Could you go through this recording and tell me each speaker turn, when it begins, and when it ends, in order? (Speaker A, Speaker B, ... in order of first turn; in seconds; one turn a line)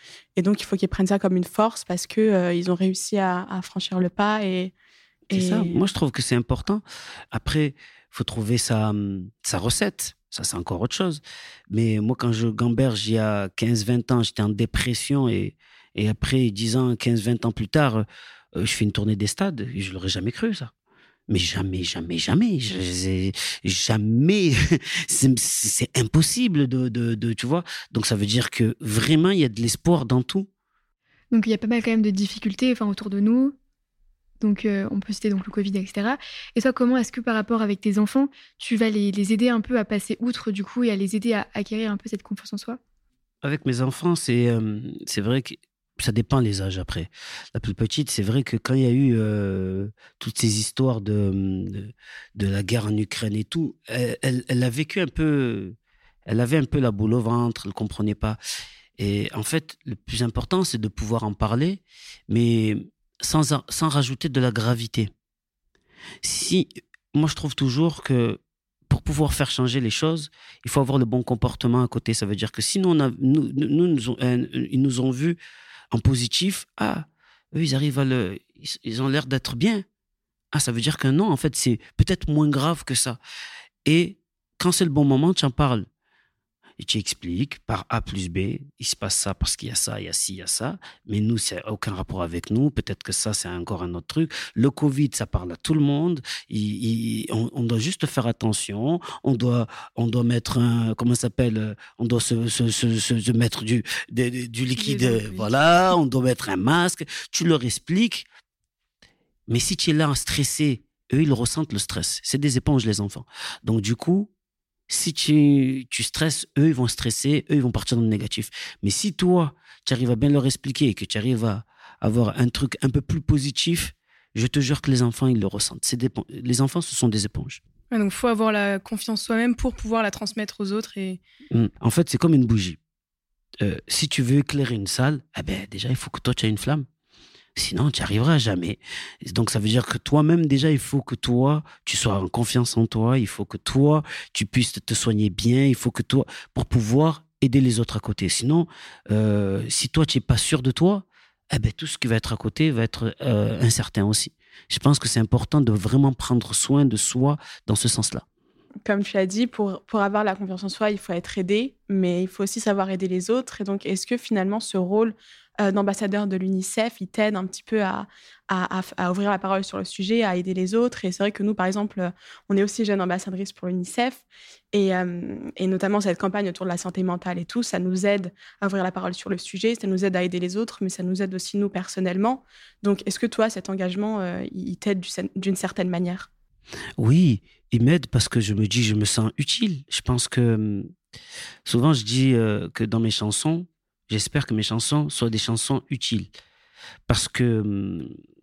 Speaker A: 0.4-4.7
Speaker B: 5.3-18.1
Speaker A: 5.3-5.8
Speaker B: 18.6-20.7
Speaker B: 21.3-30.5
Speaker C: 31.3-33.5
Speaker C: 34.4-42.8
Speaker B: 43.4-58.4
Speaker B: 59.0-65.1
Speaker B: 66.2-75.4
Speaker B: 75.9-79.8
Speaker B: 80.5-83.2
Speaker B: 83.9-85.9
Speaker B: 86.8-108.3
Speaker D: 104.8-105.5
Speaker B: 109.5-114.3
Speaker B: 114.9-127.6
Speaker D: 127.9-131.2
Speaker B: 131.5-132.8
Speaker B: 133.6-136.9
Speaker B: 137.6-158.2
Speaker A: 158.8-186.3
Speaker B: 187.0-190.9
Speaker B: 191.7-196.3
Speaker B: 197.1-198.1